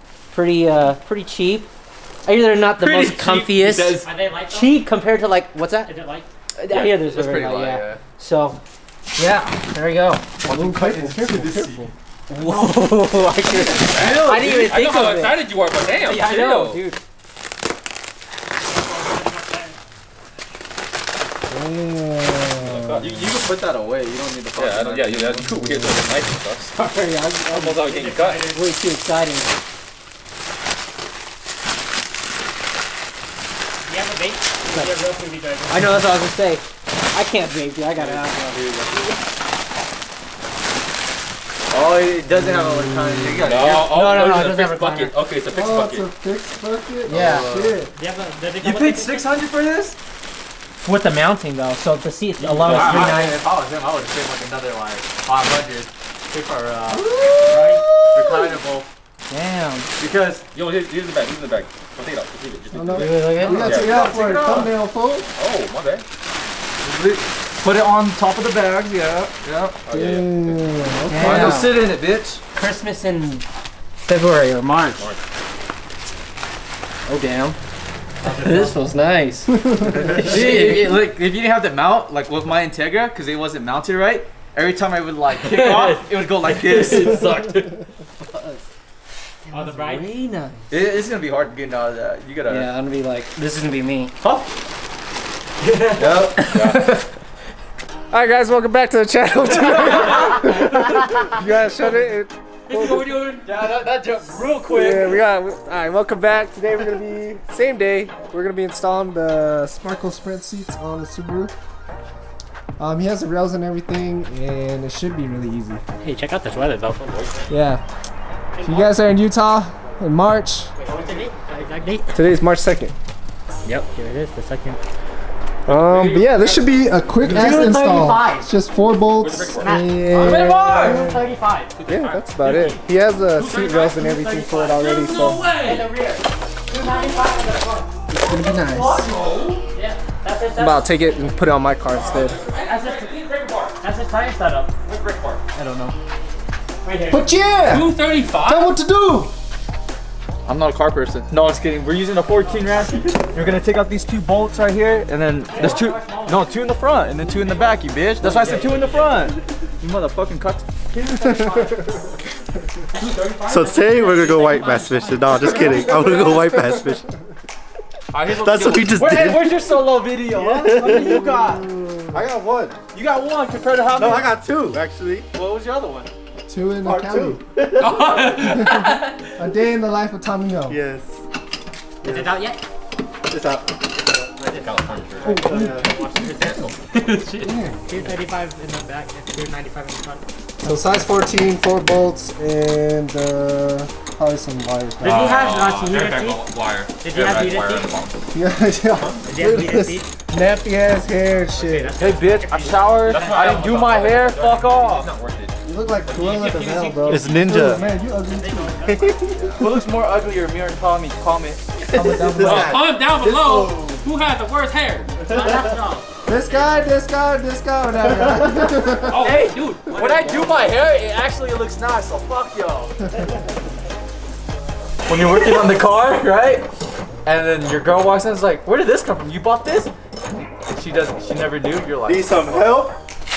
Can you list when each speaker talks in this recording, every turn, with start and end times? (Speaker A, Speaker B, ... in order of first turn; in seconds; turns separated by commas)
Speaker A: 0.3-1.7, Speaker A: 2.2-5.9, Speaker B: 2.8-4.0, Speaker C: 4.0-4.9, Speaker C: 5.8-6.3, Speaker A: 6.6-8.6, Speaker B: 6.7-8.0, Speaker A: 9.2-10.7, Speaker D: 10.4-11.9, Speaker B: 10.4-11.9, Speaker A: 12.3-15.4, Speaker B: 13.4-14.6, Speaker E: 14.0-16.8, Speaker A: 16.0-17.0, Speaker C: 18.6-19.8, Speaker D: 21.5-23.0, Speaker E: 22.6-23.2, Speaker B: 23.0-26.2, Speaker E: 24.6-26.8, Speaker A: 26.8-27.9, Speaker E: 27.5-28.5, Speaker C: 27.9-28.7, Speaker A: 28.5-29.5, Speaker C: 33.9-36.0, Speaker A: 34.7-35.0, Speaker A: 35.7-38.6, Speaker B: 38.0-39.1, Speaker B: 41.7-44.0, Speaker E: 43.4-46.1, Speaker A: 43.7-45.2, Speaker D: 45.5-47.9, Speaker B: 47.1-47.8, Speaker A: 47.1-47.5, Speaker C: 47.9-49.4, Speaker B: 48.6-50.0, Speaker A: 50.8-53.4, Speaker B: 52.4-56.9, Speaker E: 52.6-53.1, Speaker A: 56.6-57.0, Speaker D: 56.9-58.5, Speaker B: 57.4-58.9, Speaker A: 59.3-59.9, Speaker B: 60.0-60.4, Speaker E: 60.5-64.0, Speaker D: 62.7-65.3, Speaker A: 62.9-63.8, Speaker B: 63.3-64.7, Speaker E: 65.4-66.0, Speaker B: 66.8-69.8, Speaker E: 69.9-70.6, Speaker D: 69.9-71.5, Speaker A: 71.1-71.8, Speaker B: 71.2-72.4, Speaker A: 72.5-73.4, Speaker A: 74.0-75.1, Speaker A: 77.1-77.6, Speaker C: 78.2-78.8, Speaker A: 78.3-81.0, Speaker D: 79.6-79.9, Speaker B: 80.1-87.3, Speaker C: 85.5-86.0, Speaker C: 86.9-87.5, Speaker A: 89.5-90.6, Speaker C: 89.5-90.1, Speaker B: 90.7-92.8, Speaker A: 92.5-94.1, Speaker B: 94.2-94.5, Speaker B: 96.0-96.8, Speaker E: 96.5-96.8, Speaker D: 98.1-103.0, Speaker B: 99.7-100.6, Speaker B: 102.7-105.2, Speaker E: 102.9-103.5, Speaker D: 104.7-111.5, Speaker D: 112.8-115.8, Speaker C: 116.0-117.2, Speaker E: 117.0-117.4, Speaker D: 117.5-117.8, Speaker C: 118.6-118.9, Speaker D: 118.6-120.7, Speaker C: 120.9-122.1, Speaker D: 122.1-123.0, Speaker C: 123.7-124.8, Speaker D: 125.7-131.3, Speaker E: 125.7-126.7, Speaker E: 127.2-127.5, Speaker A: 127.3-128.5, Speaker E: 129.2-130.3, Speaker B: 130.1-131.0, Speaker C: 130.8-131.7, Speaker E: 131.8-132.8, Speaker D: 131.9-135.5, Speaker C: 133.4-137.9, Speaker E: 134.8-135.8, Speaker D: 138.1-139.1, Speaker E: 139.0-139.6, Speaker C: 139.7-141.2, Speaker D: 140.6-142.4, Speaker E: 141.9-143.8, Speaker C: 142.5-144.7, Speaker E: 144.8-145.4, Speaker B: 145.6-145.9, Speaker A: 145.7-145.9, Speaker C: 146.8-147.3, Speaker D: 147.1-149.3, Speaker E: 147.7-148.7, Speaker B: 150.5-160.7, Speaker C: 152.3-153.3, Speaker C: 155.4-159.3, Speaker C: 160.9-162.2, Speaker C: 162.9-166.8, Speaker E: 163.0-163.7, Speaker F: 163.5-167.1, Speaker D: 165.6-166.9, Speaker B: 168.1-171.7, Speaker F: 168.4-169.5, Speaker F: 170.4-171.1, Speaker D: 170.8-172.2, Speaker B: 172.9-174.7, Speaker F: 174.0-175.3, Speaker B: 175.3-176.1, Speaker D: 176.5-177.4, Speaker B: 176.8-178.5, Speaker E: 177.8-179.1, Speaker D: 178.4-180.8, Speaker F: 180.7-181.1, Speaker C: 182.0-182.6, Speaker B: 183.3-183.7, Speaker B: 184.2-184.6, Speaker E: 184.5-185.4, Speaker C: 185.2-187.2, Speaker D: 185.3-185.7, Speaker B: 185.4-185.8, Speaker D: 187.4-187.9, Speaker C: 187.8-190.2, Speaker D: 190.6-195.5, Speaker C: 195.0-197.9, Speaker E: 195.1-198.2, Speaker D: 198.3-202.0, Speaker C: 199.2-200.1, Speaker C: 201.5-204.0, Speaker B: 202.0-205.1, Speaker E: 203.1-205.6, Speaker D: 205.6-209.6, Speaker E: 206.1-206.5, Speaker C: 206.3-209.2, Speaker B: 207.1-207.8, Speaker B: 209.5-214.1, Speaker D: 211.9-212.8, Speaker E: 212.4-215.2, Speaker B: 215.2-215.6, Speaker C: 215.3-216.1, Speaker D: 216.3-219.3, Speaker E: 219.1-220.3, Speaker B: 219.1-222.9, Speaker B: 225.1-226.7, Speaker B: 227.2-229.9, Speaker B: 230.7-233.0